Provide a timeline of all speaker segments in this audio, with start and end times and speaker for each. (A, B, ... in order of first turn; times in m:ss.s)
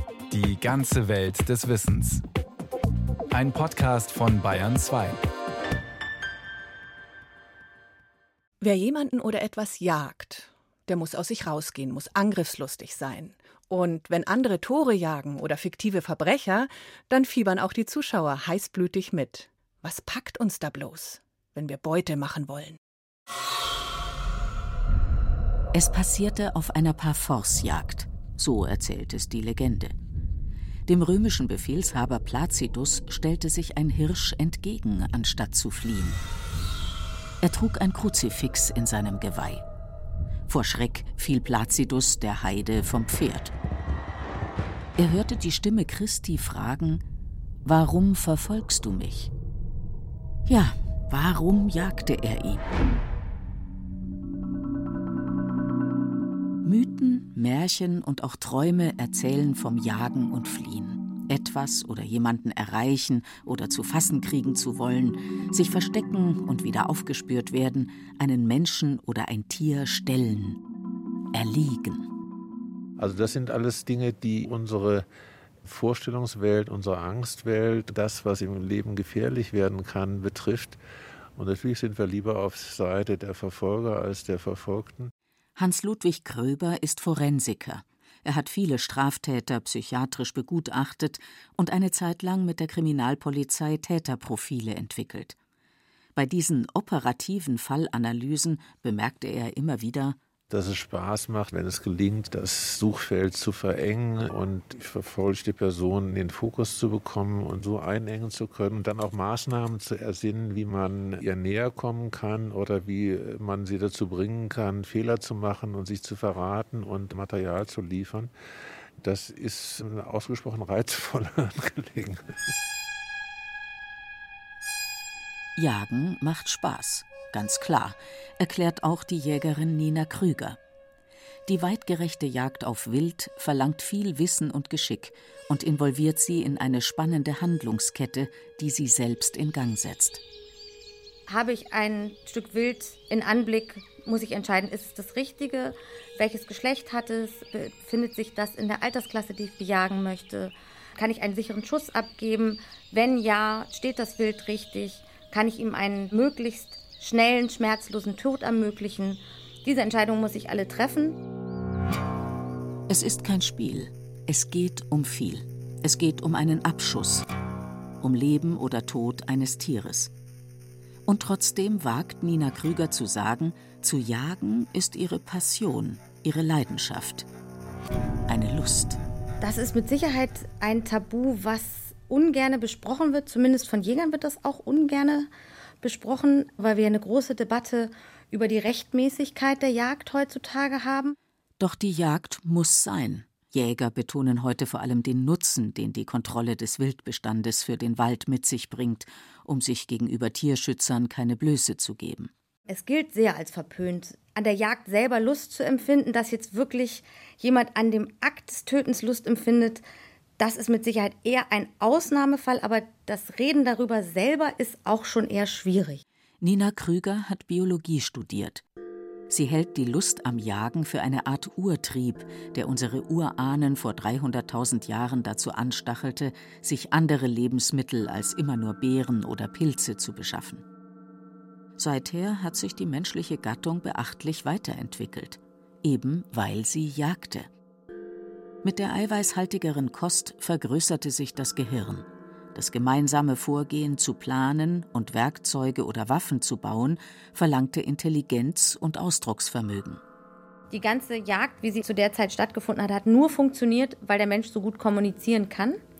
0:00.3-0:02.2 A
0:03.3-0:05.2 A
0:08.6-0:22.8 B
0:25.7-0:29.9 C
0:30.9-0:36.2 C
0:37.4-0:39.6 C
0:40.5-0:43.5 C
0:45.0-0:47.0 C
0:47.6-0:49.3 C
0:50.5-0:52.6 C
0:56.6-1:10.6 C
1:11.3-1:12.1 C
1:13.0-1:15.0 D
1:15.6-1:20.8 D
1:21.4-1:25.1 D
1:25.6-1:35.4 C
1:36.1-1:40.2 C
1:40.5-1:58.3 D
1:59.0-2:02.2 D
2:05.6-2:10.6 C
2:11.5-2:20.2 C
2:21.3-2:41.2 E
2:42.9-2:47.2 C
2:48.0-2:50.1 C
2:51.1-2:57.2 C
2:58.3-2:59.0 C
2:59.4-3:05.3 E
3:05.8-3:11.2 E
3:11.6-3:22.3 C
3:22.7-3:29.8 E
3:30.4-3:36.0 E
3:36.4-3:38.6 C
3:39.3-3:50.6 C
3:51.8-3:57.5 C
3:58.6-4:10.0 C
4:10.7-4:15.8 E